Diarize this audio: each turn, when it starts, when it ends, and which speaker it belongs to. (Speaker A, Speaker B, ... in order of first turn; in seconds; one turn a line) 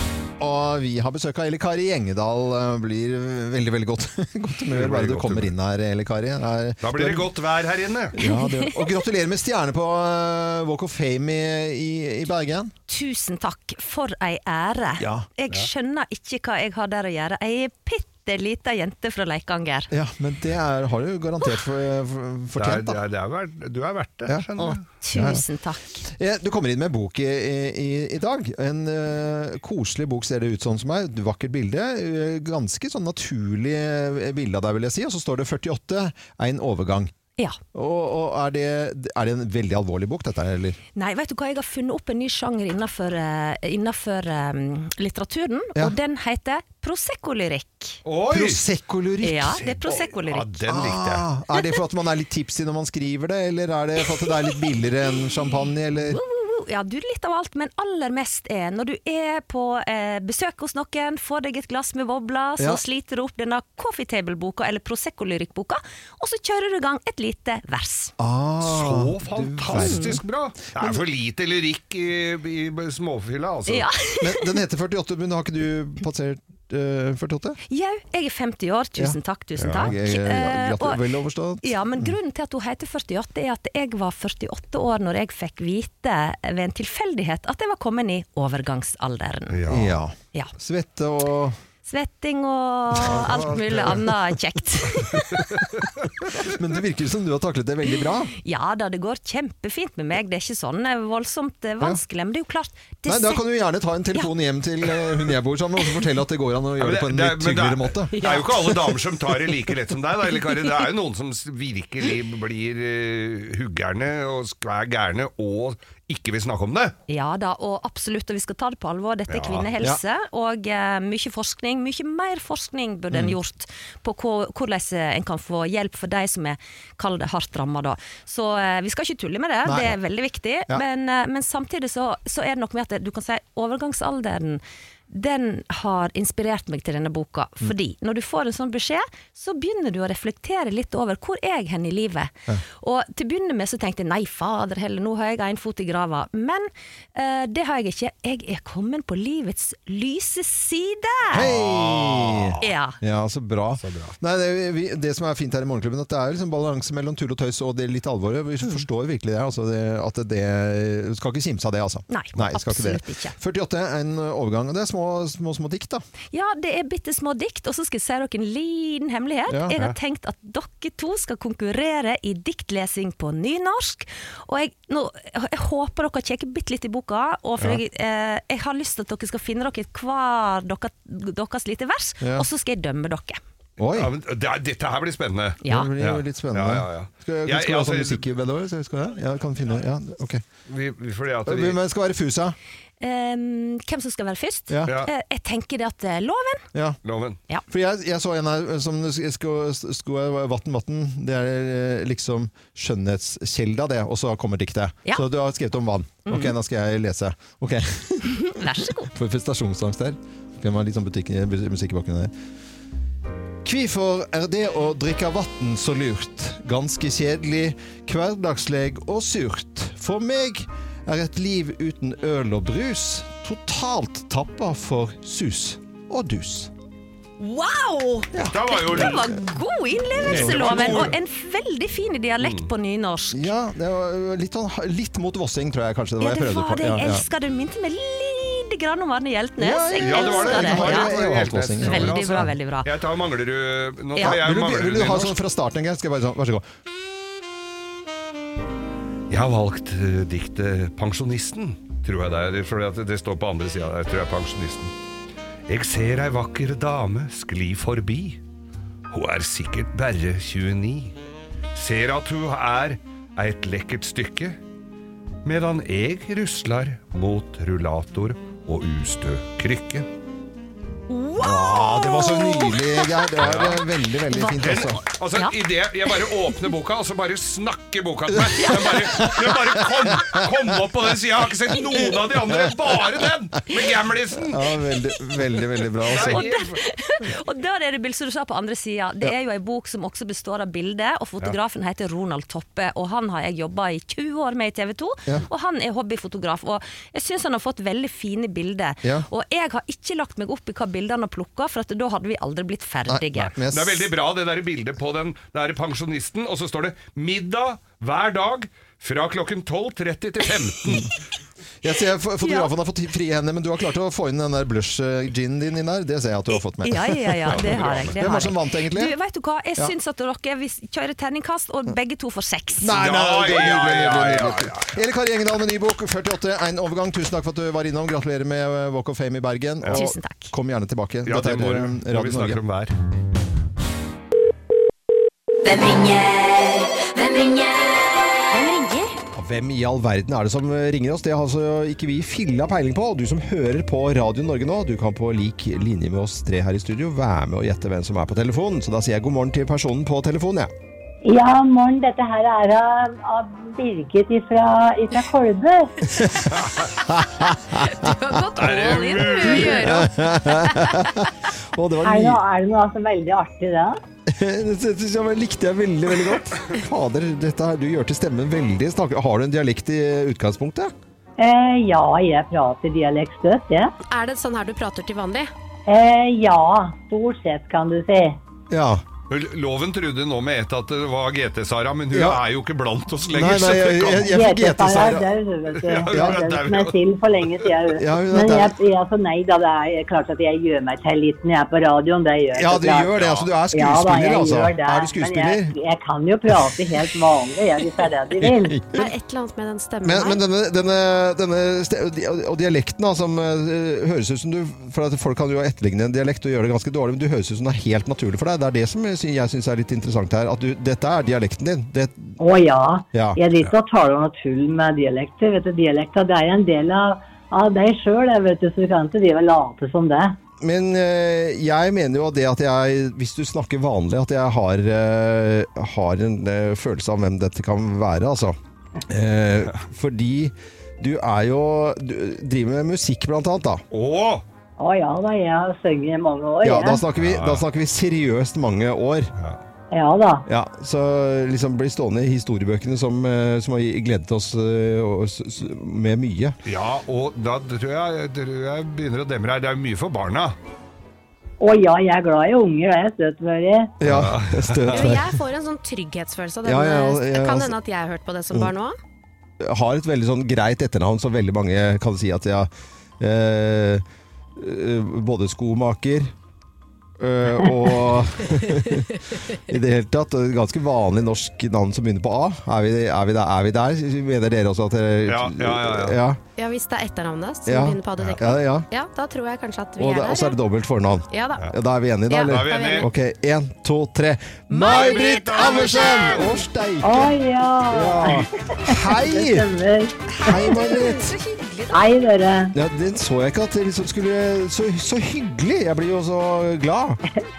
Speaker A: 0.4-7.3
Speaker B: 4.7-5.5
Speaker B: 6.8-8.2
Speaker A: 8.1-12.7
Speaker C: 8.2-8.7
Speaker C: 12.9-19.9
Speaker A: 15.0-15.3
Speaker A: 19.9-23.0
Speaker B: 22.6-24.9
Speaker A: 24.3-25.4
Speaker C: 25.0-26.1
Speaker A: 26.1-37.1
Speaker A: 37.7-40.8
Speaker C: 41.0-48.0
Speaker B: 48.0-48.6
Speaker A: 48.3-49.7
Speaker C: 49.2-50.5
Speaker B: 49.5-51.2
Speaker A: 50.7-56.2
Speaker C: 56.0-68.1
Speaker A: 68.2-70.2
Speaker B: 68.6-73.9
Speaker C: 69.7-70.2
Speaker C: 73.7-74.6
Speaker A: 74.2-77.6
Speaker C: 77.7-81.0
Speaker B: 79.6-80.0
Speaker A: 79.7-82.2
Speaker C: 81.6-89.6
Speaker B: 89.5-90.0
Speaker A: 89.7-91.6
Speaker C: 91.8-95.5
Speaker A: 93.0-94.1
Speaker B: 93.5-94.0
Speaker B: 95.5-95.9
Speaker A: 96.3-98.3
Speaker C: 98.4-103.4
Speaker A: 103.1-108.1
Speaker B: 106.8-117.0
Speaker D: 108.1-109.1
Speaker C: 117.1-151.5
Speaker B: 119.3-119.8
Speaker A: 123.1-123.4
Speaker A: 129.7-130.0
Speaker B: 151.3-152.8
Speaker A: 151.3-166.0
Speaker C: 152.6-153.0
Speaker B: 153.8-154.2
Speaker C: 162.1-163.3
Speaker C: 166.3-183.4
Speaker A: 169.5-169.8
Speaker A: 182.2-182.5
Speaker A: 183.8-184.1
Speaker B: 183.9-188.3
Speaker C: 185.6-185.9
Speaker A: 185.7-190.4
Speaker B: 190.7-191.8
Speaker A: 191.5-192.6
Speaker C: 193.0-196.7
Speaker A: 194.7-194.9
Speaker B: 194.9-195.1
Speaker B: 197.0-197.4
Speaker A: 197.7-212.3
Speaker C: 206.3-206.6
Speaker C: 208.5-209.1
Speaker A: 213.7-226.7
Speaker C: 227.4-233.5
Speaker A: 228.3-229.4
Speaker B: 228.4-229.3
Speaker A: 230.2-231.1
Speaker B: 230.2-231.2
Speaker B: 232.4-232.7
Speaker A: 233.3-237.2
Speaker C: 236.2-241.2
Speaker A: 239.6-242.5
Speaker B: 240.0-245.4
Speaker C: 241.8-242.9
Speaker C: 244.2-244.4
Speaker A: 244.2-246.7
Speaker B: 249.3-254.9
Speaker B: 255.7-258.4
Speaker B: 259.1-261.2
Speaker B: 261.7-264.6
Speaker B: 265.4-270.1
Speaker C: 271.1-276.6
Speaker A: 271.4-275.0
Speaker B: 273.4-273.8
Speaker B: 274.6-284.8
Speaker A: 278.3-280.5
Speaker C: 278.6-279.4
Speaker A: 282.5-283.1
Speaker A: 284.5-286.5
Speaker B: 286.0-286.8
Speaker C: 286.1-303.6
Speaker A: 303.1-304.1
Speaker B: 303.6-311.1
Speaker A: 311.8-319.1
Speaker C: 312.4-312.7
Speaker C: 316.5-322.9
Speaker B: 317.5-318.3
Speaker A: 322.8-332.6
Speaker B: 322.9-325.0
Speaker B: 329.8-330.1
Speaker C: 329.9-330.5
Speaker B: 331.2-332.9
Speaker C: 335.6-339.1
Speaker A: 339.4-350.7
Speaker E: 351.2-355.9
Speaker A: 356.1-358.2
Speaker B: 356.5-356.9
Speaker D: 357.8-361.0
Speaker B: 358.6-360.0
Speaker A: 359.4-362.4
Speaker E: 362.0-364.0
Speaker A: 364.3-370.9
Speaker E: 371.4-373.9
Speaker D: 374.1-375.5
Speaker E: 375.9-378.4
Speaker A: 378.7-379.0
Speaker B: 379.3-384.4
Speaker A: 382.1-382.4
Speaker A: 383.3-385.3
Speaker E: 384.2-393.1
Speaker B: 385.7-387.8
Speaker A: 386.1-386.4
Speaker A: 388.0-388.8
Speaker A: 392.5-395.8
Speaker B: 393.1-393.5
Speaker E: 393.7-398.8
Speaker A: 398.4-399.1
Speaker D: 398.9-400.4
Speaker A: 400.0-412.4
Speaker E: 412.4-420.4
Speaker A: 413.1-413.4
Speaker A: 420.6-433.8
Speaker B: 433.9-434.4
Speaker E: 434.8-437.0
Speaker A: 436.6-439.3
Speaker B: 437.2-437.6
Speaker B: 439.4-439.6
Speaker E: 439.9-440.4
Speaker A: 440.5-446.6
Speaker B: 446.6-450.6
Speaker E: 451.6-453.9
Speaker A: 454.0-455.3
Speaker B: 454.0-455.1
Speaker D: 454.9-459.0
Speaker A: 456.6-457.7
Speaker A: 459.6-464.0
Speaker A: 464.6-466.3
Speaker A: 467.2-469.1
Speaker A: 469.7-476.4
Speaker B: 475.3-476.2
Speaker D: 476.6-480.6
Speaker A: 477.7-478.9
Speaker A: 480.0-487.4
Speaker D: 481.3-481.6
Speaker D: 482.3-483.1
Speaker B: 482.4-483.1
Speaker D: 484.7-486.4
Speaker B: 484.9-486.7
Speaker E: 487.0-490.8
Speaker A: 487.9-489.7
Speaker B: 488.2-488.5
Speaker A: 490.4-491.3
Speaker C: 490.8-492.1
Speaker E: 491.9-492.7
Speaker A: 492.7-497.2